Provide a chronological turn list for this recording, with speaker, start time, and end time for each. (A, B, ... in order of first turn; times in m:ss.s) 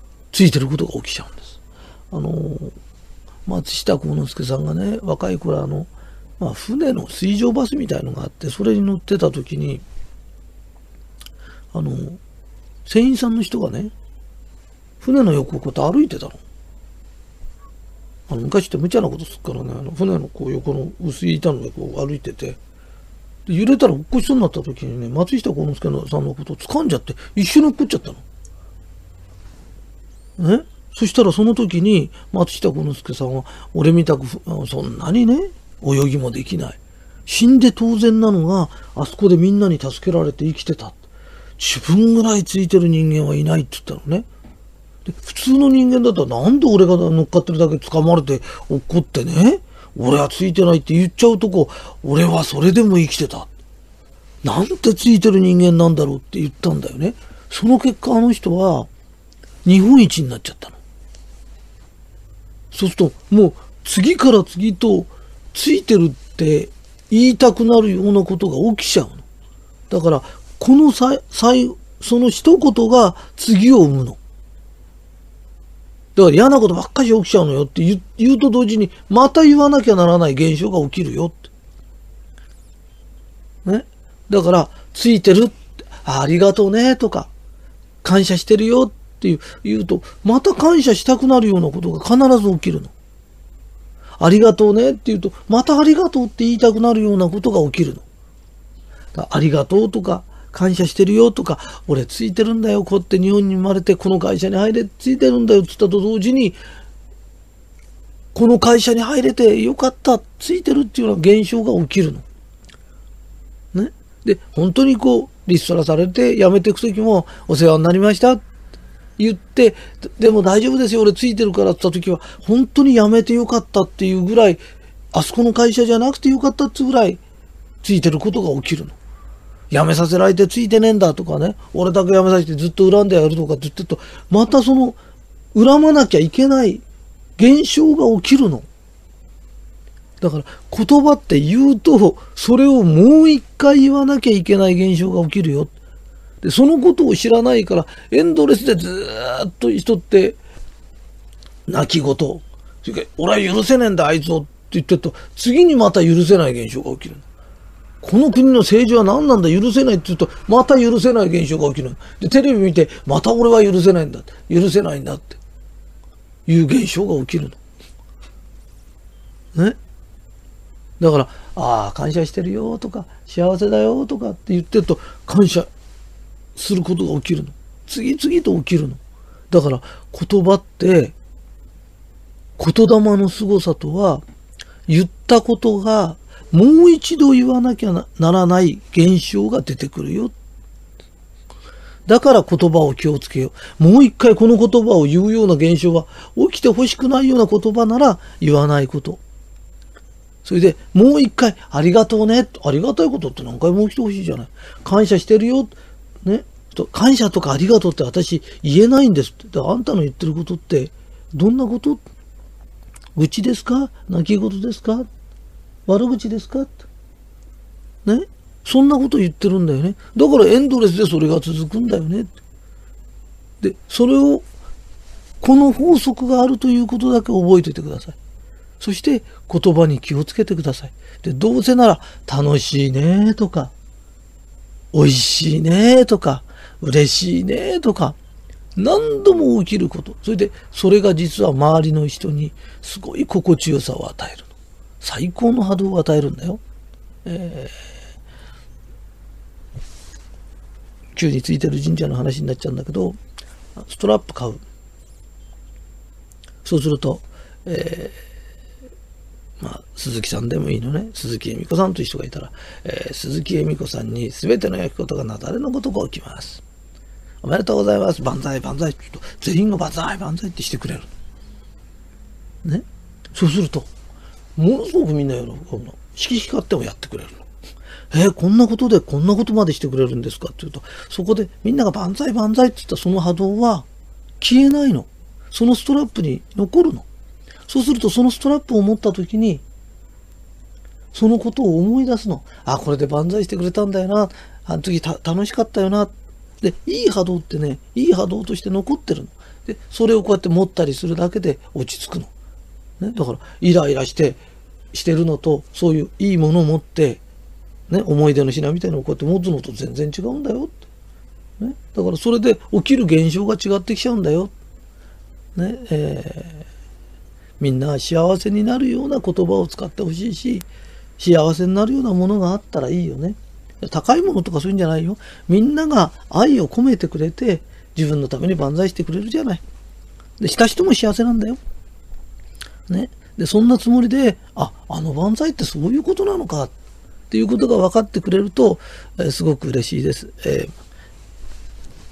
0:00.3-0:01.6 A
0:02.1-0:02.8 A
0:03.4-0:09.8 A
0:11.7-0:12.2 A
0:12.8-0:13.9 A
0:15.0-0:16.4 A
0:18.3-0:22.6 A
0:23.4-0:28.2 A
0:30.4-0:41.0 A
0:41.6-0:44.3 A
0:45.0-0:53.5 A
0:54.4-0:58.9 A
0:59.6-1:00.8 A
1:02.7-1:09.2 A
1:09.9-1:14.2 A
1:16.2-1:21.5 A
1:23.6-1:27.3 A
1:28.0-1:32.9 A
1:34.2-1:38.0 A
1:39.1-1:46.6 A
1:48.3-1:52.2 A
1:53.7-1:58.4 A
1:59.2-2:04.6 A
2:05.1-2:07.2 A
2:07.8-2:09.0 A
2:09.7-2:15.0 A
2:15.5-2:16.8 A
2:17.4-2:18.6 A
2:20.2-2:25.7 A
2:26.4-2:30.4 A
2:31.7-2:37.2 A
2:38.0-2:45.4 A
2:46.4-2:47.6 A
2:51.0-2:55.7 A
2:56.5-3:01.2 A
3:02.6-3:04.2 A
3:04.9-3:10.3 A
3:12.0-3:19.2 A
3:20.4-3:32.0 A
3:33.1-3:35.1 A
3:35.9-3:36.8 A
3:38.0-3:42.4 A
3:43.6-3:44.4 A
3:45.4-3:48.2 A
3:48.8-3:53.7 A
3:54.9-3:58.2 A
3:58.8-4:06.6 A
4:07.2-4:07.7 A
4:11.1-4:13.2 A
4:13.7-4:14.6 A
4:16.6-4:18.2 A
4:19.6-4:26.6 A
4:27.4-4:31.1 A
4:32.6-4:33.9 A
4:34.6-4:37.5 A
4:38.1-4:43.9 A
4:44.4-4:47.0 A
4:47.7-4:49.6 A
4:51.1-5:02.3 A
5:03.0-5:04.4 A
5:04.9-5:07.2 A
5:07.9-5:10.8 A
5:11.6-5:14.5 A
5:15.5-5:16.7 A
5:17.6-5:29.6 A
5:30.4-5:31.6 A
5:32.9-5:36.7 A
5:37.3-5:40.7 A